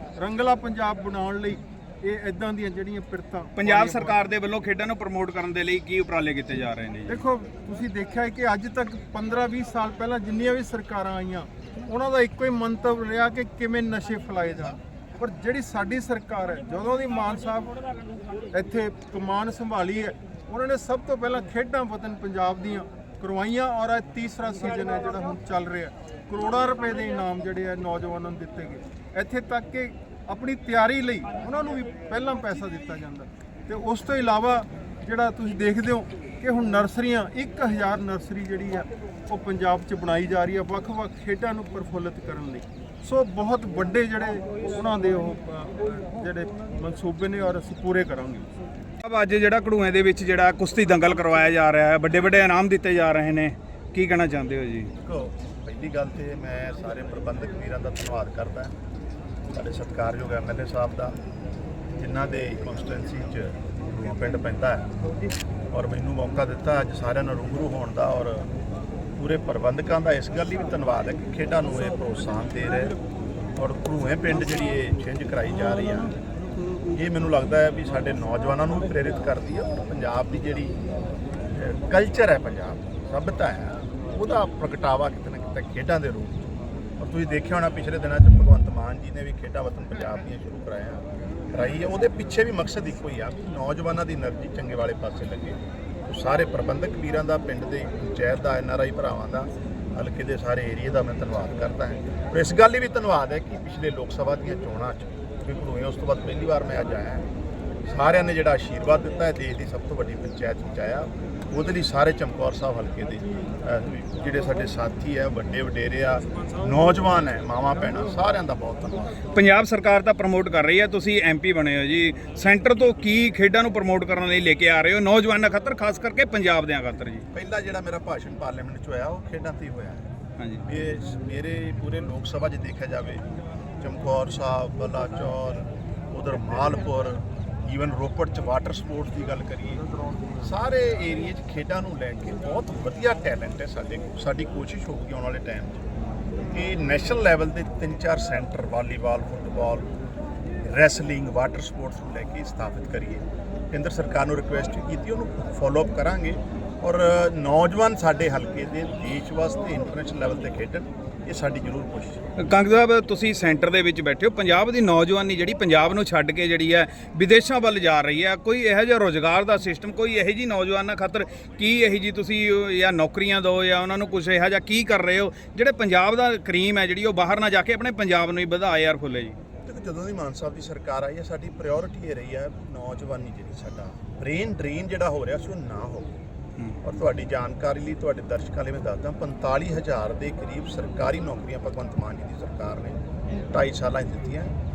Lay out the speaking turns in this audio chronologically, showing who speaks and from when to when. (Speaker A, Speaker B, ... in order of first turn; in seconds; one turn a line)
Speaker A: 0.2-4.2
Speaker B: 3.6-7.2
Speaker A: 7.1-17.8
Speaker A: 18.5-48.5
Speaker B: 49.0-54.9
Speaker C: 55.0-58.7
Speaker C: 59.5-61.2
Speaker C: 62.0-64.9
Speaker C: 65.7-68.5
Speaker C: 69.2-73.0
Speaker C: 73.6-76.1
Speaker C: 76.9-80.8
Speaker C: 81.5-86.4
Speaker C: 87.0-107.2
Speaker C: 107.9-119.2
Speaker B: 119.3-127.2
Speaker C: 127.3-130.1
Speaker C: 130.7-133.2
Speaker C: 133.8-139.8
Speaker C: 140.4-145.8
Speaker C: 146.5-149.9
Speaker C: 150.7-162.2
Speaker B: 162.4-179.4
Speaker C: 179.7-186.1
Speaker C: 186.8-193.0
Speaker C: 193.5-194.6